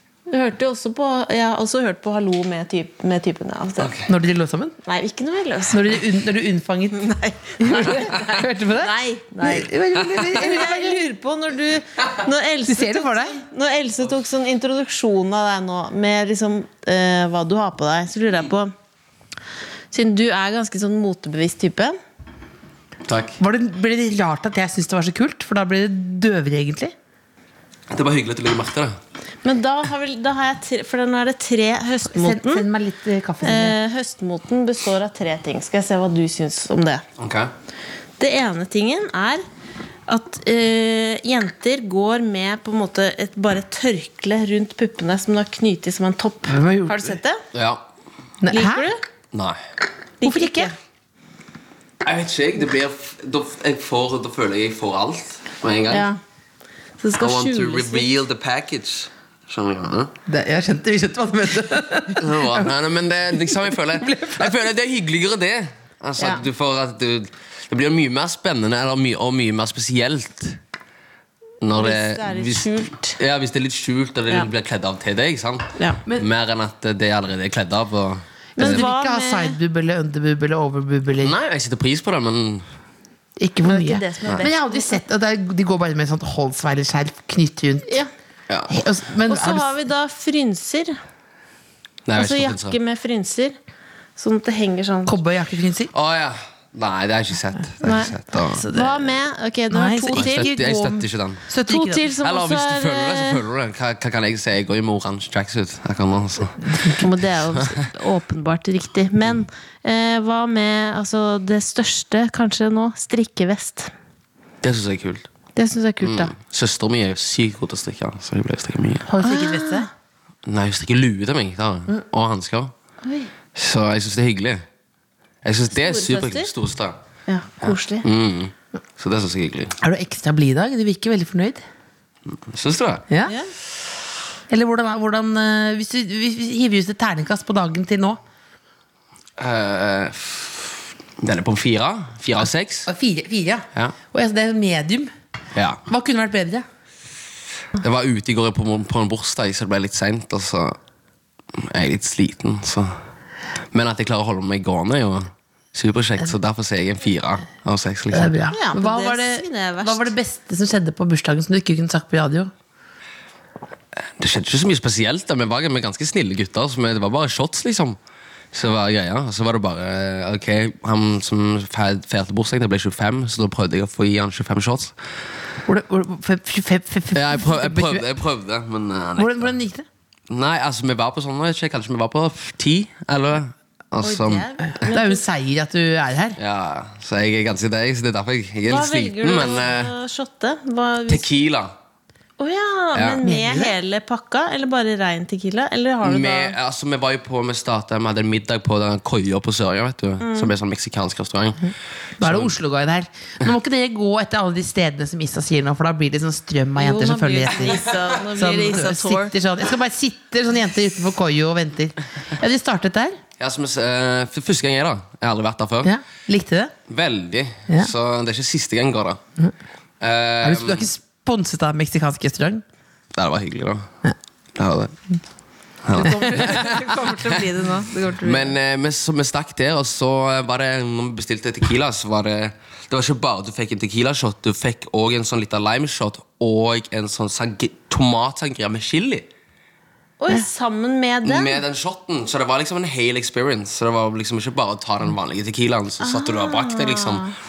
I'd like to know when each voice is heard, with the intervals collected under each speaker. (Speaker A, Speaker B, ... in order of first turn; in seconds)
Speaker A: 0.3-3.9, 4.8-6.0, 6.9-18.7, 19.9-22.0, 29.4-32.7, 33.4-37.0, 38.2-39.4, 40.1-47.4, 48.5-49.0, 50.2-50.7, 55.9-56.2, 57.0-58.1, 66.2-66.4, 71.7-73.2, 78.6-79.6, 83.6-85.0, 89.3-91.0, 92.2-93.6, 94.2-95.2, 97.8-98.2, 98.7-100.5, 101.7-103.4, 106.9-113.9, 115.6-116.3, 119.2-119.9, 123.0-123.3, 125.7-126.5, 127.3-128.1, 133.3-133.5, 158.5-160.1, 184.0-185.2, 188.7-191.3, 192.4-196.6, 200.2-200.5, 206.8-209.3, 225.9-228.5, 240.2-241.6, 246.0-247.3
Speaker B: 3.8-4.1, 23.1-23.4, 27.9-29.0, 37.2-37.5, 47.5-47.8, 49.3-49.6, 52.0-56.1, 57.2-60.1, 62.2-70.6, 71.6-78.8, 81.2-82.7, 92.1-92.8, 95.9-98.7, 100.1-101.4, 102.2-107.8, 114.6-115.3, 116.0-119.1, 120.5-122.7, 123.5-124.7, 125.4-127.0, 127.6-129.8, 132.3-133.1, 139.4-142.9, 143.7-144.0, 145.6-145.8, 147.8-150.8, 151.6-153.0, 153.7-158.3, 164.2-168.0, 168.5-174.9, 177.1-179.5, 180.3-184.9, 186.4-189.9, 191.1-191.7, 192.9-193.2, 196.0-202.5, 213.4-215.9, 216.9-219.2, 220.0-220.9, 223.2-223.9, 224.6-225.0, 225.8-227.4, 228.2-239.3, 241.2-247.3
Speaker C: 4.1-4.8, 5.7-7.0, 7.6-11.1, 12.7-13.4, 23.4-26.9, 32.1-33.8, 46.5-47.2, 48.4-48.9, 50.2-50.7, 60.3-62.7, 63.5-64.7, 78.6-81.3, 83.4-87.9, 88.7-89.8, 95.1-95.9, 98.5-99.1, 99.7-102.1, 119.0-119.9, 129.8-131.7, 134.5-138.2, 142.9-145.1, 145.9-146.7, 158.1-162.5, 175.7-178.1, 179.2-179.9, 184.8-186.4, 193.2-193.8, 202.2-213.2, 215.8-216.8, 220.4-222.6, 225.9-226.8